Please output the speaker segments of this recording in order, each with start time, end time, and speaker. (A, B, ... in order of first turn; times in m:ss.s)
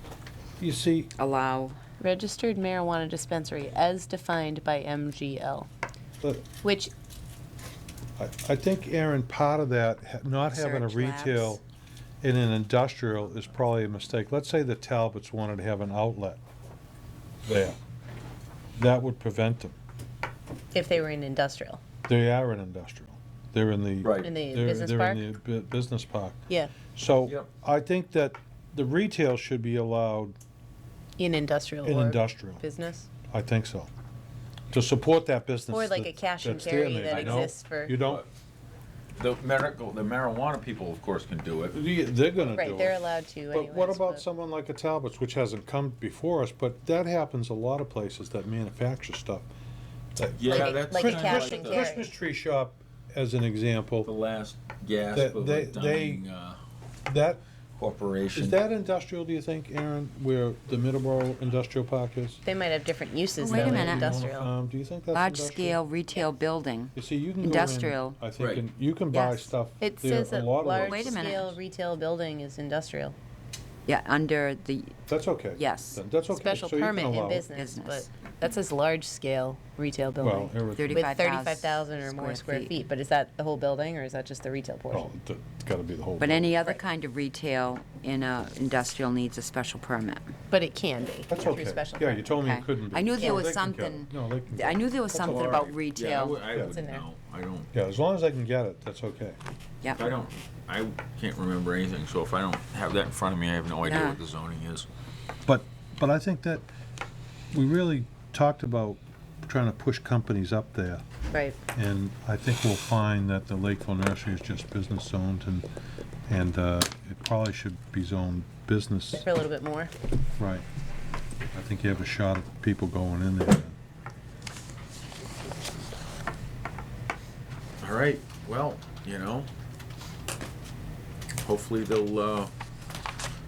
0:00.6-0:01.1 A
0:01.2-0:01.8 B
0:02.0-0:05.7 C
0:06.6-0:06.9 C
0:08.2-0:11.6 A
0:10.5-0:11.6 B
0:12.2-0:16.4 A
0:17.4-0:17.8 A
0:18.8-0:19.8 A
0:20.7-0:21.8 C
0:22.1-0:30.4 A
0:24.0-0:24.3 D
0:24.2-0:25.3 C
0:26.5-0:26.8 C
0:31.2-0:33.1 C
0:31.8-0:32.6 A
0:33.3-0:33.9 A
0:34.7-0:38.2 A
0:35.7-0:38.0 C
0:37.1-0:38.3 D
0:39.2-0:41.8 D
0:41.7-0:43.0 A
0:42.5-0:44.2 C
0:43.5-0:49.5 A
0:50.2-0:54.1 A
0:50.4-0:51.9 D
0:50.5-0:52.0 C
0:54.1-0:56.6 D
0:55.1-0:56.2 A
0:57.1-0:57.4 A
0:57.8-0:58.6 D
0:58.4-1:02.4 A
1:02.4-1:04.5 C
1:03.4-1:04.2 B
1:03.5-1:05.8 A
1:05.1-1:08.2 B
1:07.0-1:11.4 A
1:08.4-1:08.6 D
1:09.1-1:09.5 B
1:09.8-1:13.2 C
1:10.8-1:11.6 B
1:13.9-1:15.0 B
1:15.1-1:17.5 A
1:15.6-1:16.0 B
1:16.3-1:25.1 C
1:17.5-1:18.1 B
1:20.2-1:21.1 A
1:20.7-1:22.7 B
1:24.9-1:26.5 A
1:26.2-1:30.3 B
1:30.5-1:32.4 C
1:31.3-1:35.6 A
1:32.4-1:36.4 B
1:33.2-1:33.5 C
1:35.2-1:37.7 D
1:36.6-1:37.0 C
1:37.7-1:39.4 A
1:40.0-1:44.9 D
1:43.8-1:44.2 B
1:45.5-1:46.7 A
1:47.5-1:51.1 A
1:51.3-1:51.6 C
1:51.8-1:55.7 A
1:56.3-1:59.2 A
1:59.2-1:59.9 C
2:00.4-2:00.6 A
2:01.5-2:03.8 A
2:07.8-2:09.5 D
2:11.4-2:12.5 D